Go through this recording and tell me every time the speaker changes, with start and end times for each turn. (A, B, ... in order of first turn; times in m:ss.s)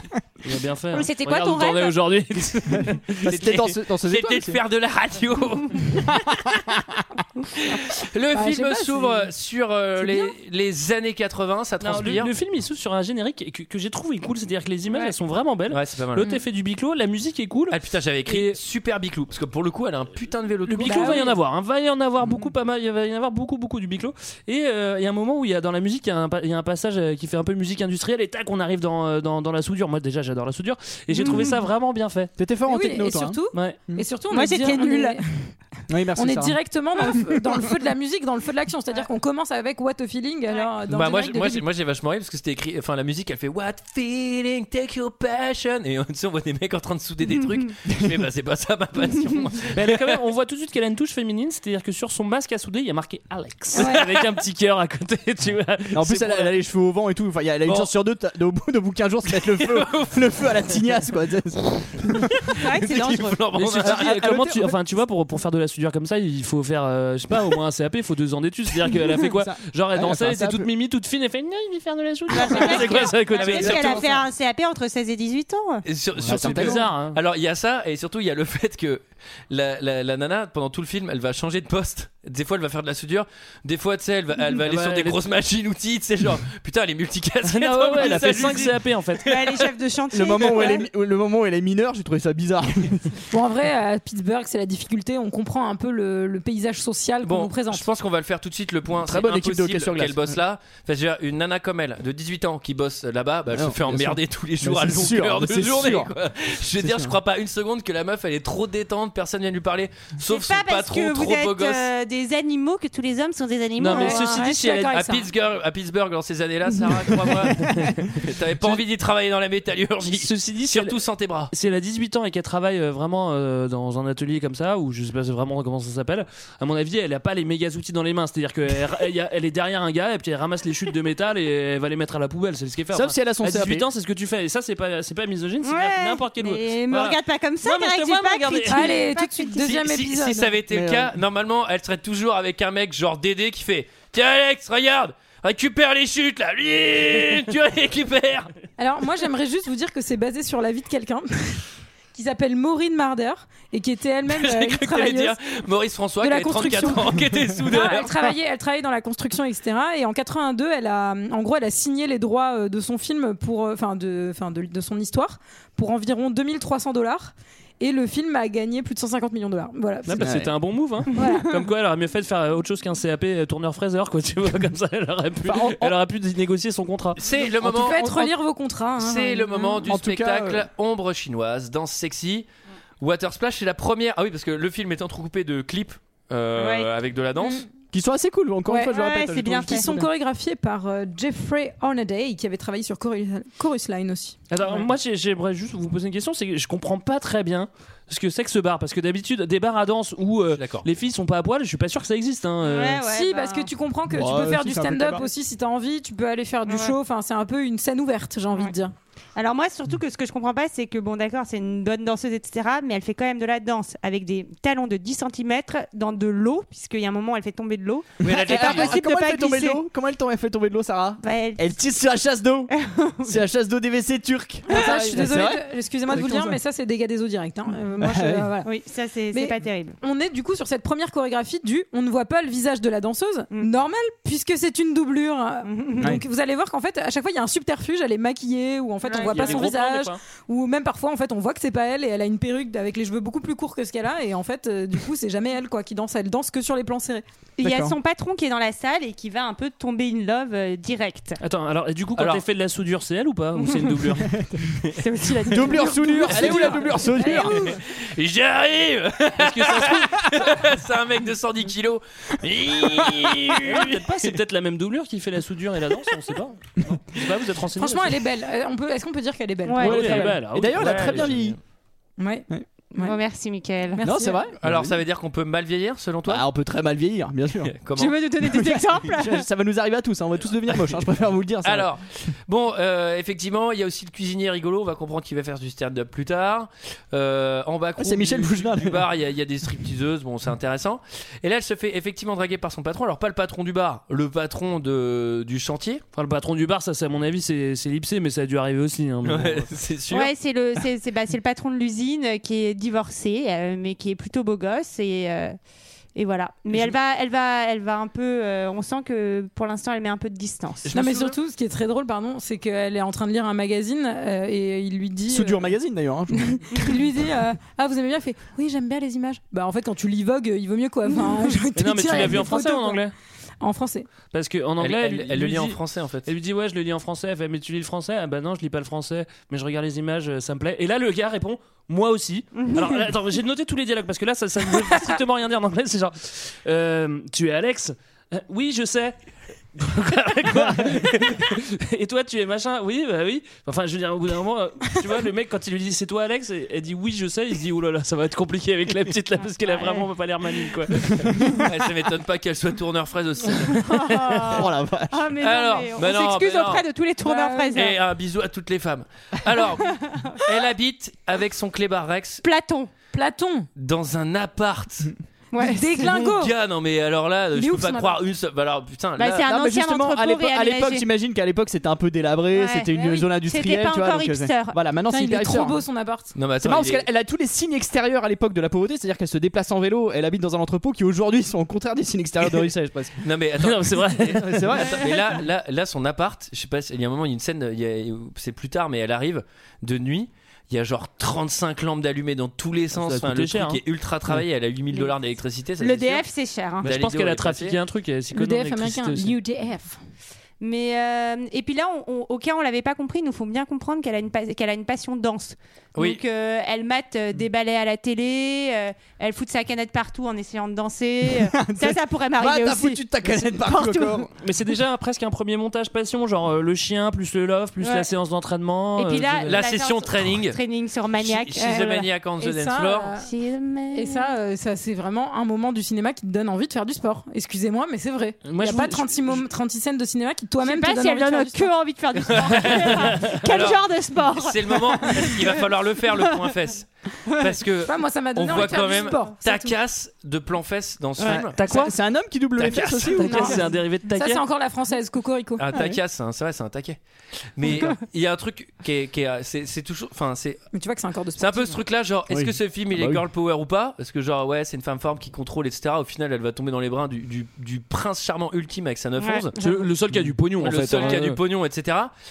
0:00.4-0:03.7 A
0:00.9-0:02.1 B
0:02.7-0:04.6 C
0:03.3-0:06.3 D
0:07.6-0:12.3 D
0:08.3-0:09.3 E
0:10.0-0:10.3 E
0:11.8-0:18.6 A
0:15.7-0:16.3 D
0:17.7-0:21.3 D
0:20.7-0:32.3 A
0:20.9-0:21.3 E
0:31.2-0:31.6 B
0:32.4-0:34.0 C
0:32.7-0:35.5 E
0:34.3-0:35.2 B
0:35.9-0:37.4 C
0:36.2-0:41.6 E
0:40.9-0:50.2 D
0:49.8-0:56.5 A
0:55.9-1:02.4 C
0:59.6-1:00.2 D
1:02.6-1:03.4 B
1:02.6-1:04.2 D
1:03.5-1:14.0 A
1:03.7-1:04.8 C
1:08.9-1:10.7 C
1:12.3-1:15.8 B
1:12.7-1:14.2 D
1:13.6-1:14.1 C
1:15.9-1:28.8 D
1:16.2-1:17.2 A
1:16.2-1:16.8 C
1:24.5-1:25.2 A
1:27.4-1:29.4 A
1:28.0-1:28.7 C
1:29.2-1:30.9 B
1:30.1-1:33.2 C
1:33.3-1:37.8 E
1:37.2-1:51.9 D
1:39.0-1:40.4 C
1:43.5-1:46.1 C
1:46.8-1:47.2 C
1:50.2-1:55.0 B
1:53.8-1:54.5 A
1:53.9-1:55.2 E
1:54.1-2:01.5 D
1:57.3-1:57.7 C
1:57.5-1:58.1 A
2:00.1-2:01.0 A
2:01.5-2:19.0 A
2:12.9-2:13.9 C
2:15.6-2:19.7 B
2:18.7-2:20.6 E
2:19.6-2:28.5 D
2:20.7-2:21.1 C
2:28.8-2:35.4 E
2:34.3-2:38.3 D
2:36.2-2:50.3 E
2:50.1-2:57.2 A
2:50.2-2:50.5 C
2:51.2-2:51.5 E
2:55.4-2:56.0 C
2:57.2-2:58.3 D
2:57.6-2:58.1 C
2:57.6-2:59.8 E
2:59.0-3:02.5 D
2:59.8-3:00.7 C
3:03.0-3:07.6 D
3:06.6-3:06.9 B
3:07.9-3:10.1 C
3:08.7-3:08.9 E
3:08.9-3:09.9 B
3:09.6-3:14.4 E
3:14.5-3:23.0 A
3:20.6-3:20.9 D
3:22.6-3:23.7 B
3:23.1-3:28.9 E
3:24.1-3:25.3 C
3:26.7-3:27.0 B
3:29.4-3:39.8 B
3:38.2-3:39.0 D
3:38.2-3:46.6 C
3:41.2-3:41.7 B
3:42.7-3:43.4 B
3:44.7-3:48.7 E
3:44.7-3:45.0 B
3:48.0-3:48.5 C
3:48.6-3:50.0 B
3:49.3-4:07.2 E
3:55.6-3:56.1 B
3:59.0-3:59.7 B
3:59.2-4:00.2 A
4:07.6-4:11.4 B
4:07.6-4:08.0 C
4:11.4-4:14.3 A
4:12.2-4:12.4 D
4:13.6-4:13.9 B
4:15.0-4:17.5 B
4:15.5-4:17.7 C
4:16.0-4:17.8 E
4:17.9-4:24.1 D
4:23.6-4:28.2 A
4:27.8-4:30.4 E
4:29.6-4:30.3 B
4:29.8-4:31.6 A
4:29.8-4:31.6 C
4:30.8-4:31.6 D
4:32.2-4:33.2 E
4:33.0-4:34.0 B
4:34.0-4:34.4 E
4:34.0-4:35.0 C
4:34.6-4:36.4 D
4:36.3-4:37.7 C
4:37.7-4:38.2 D
4:38.0-4:39.5 B
4:38.4-4:41.9 C
4:41.6-4:56.0 D
4:48.0-4:49.1 C
4:56.2-4:59.7 A
4:59.2-5:00.3 D
5:00.1-5:05.6 B
5:06.2-5:10.9 B
5:06.7-5:07.0 D
5:10.8-5:11.4 D
5:10.9-5:15.8 E
5:15.3-5:16.9 C
5:16.6-5:23.0 E
5:21.8-5:23.1 A
5:23.6-5:24.1 E
5:24.3-5:39.2 A
5:24.8-5:26.3 D
5:39.8-5:51.3 A
5:49.7-5:50.1 B
5:51.6-5:53.9 D
5:53.7-5:58.0 B
5:54.4-5:55.4 C
5:55.4-5:56.8 D
5:57.2-5:57.8 E
5:57.8-6:02.4 D
6:00.1-6:00.5 B
6:02.4-6:02.9 B
6:03.1-6:03.7 E
6:03.8-6:05.1 D
6:05.5-6:06.1 B
6:05.6-6:06.5 E
6:06.0-6:09.4 D
6:07.6-6:08.2 E
6:09.2-6:11.0 B
6:09.4-6:15.8 C
6:12.5-6:14.8 B
6:15.1-6:16.3 E
6:16.4-6:17.1 D
6:16.6-6:23.2 C
6:23.2-6:36.2 D
6:23.6-6:24.8 A
6:24.2-6:25.1 C
6:32.9-6:33.8 A
6:35.8-6:36.9 B
6:36.8-6:39.3 A
6:36.8-6:37.8 D
6:38.3-6:40.0 E
6:40.6-6:54.3 B
6:46.0-6:46.2 D
6:51.3-6:54.3 C
6:54.4-6:59.6 A
6:57.8-6:58.1 B
6:59.0-7:02.1 B
6:59.5-7:00.6 D
7:01.2-7:03.1 D
7:02.4-7:03.3 E
7:03.1-7:04.3 B
7:03.9-7:11.7 E
7:08.4-7:09.4 A
7:10.6-7:15.5 B
7:12.3-7:21.6 D
7:17.3-7:19.8 E
7:21.5-7:21.9 A
7:21.6-7:23.8 C
7:22.6-7:23.3 D
7:23.2-7:24.4 A
7:23.3-7:25.6 E
7:25.6-7:27.0 D
7:25.7-7:26.0 C
7:27.6-7:30.6 D
7:30.7-7:31.8 E
7:31.4-7:39.5 D
7:32.3-7:33.2 C
7:39.2-7:39.5 B
7:39.6-7:41.4 A
7:39.6-7:39.9 E
7:40.6-7:42.1 D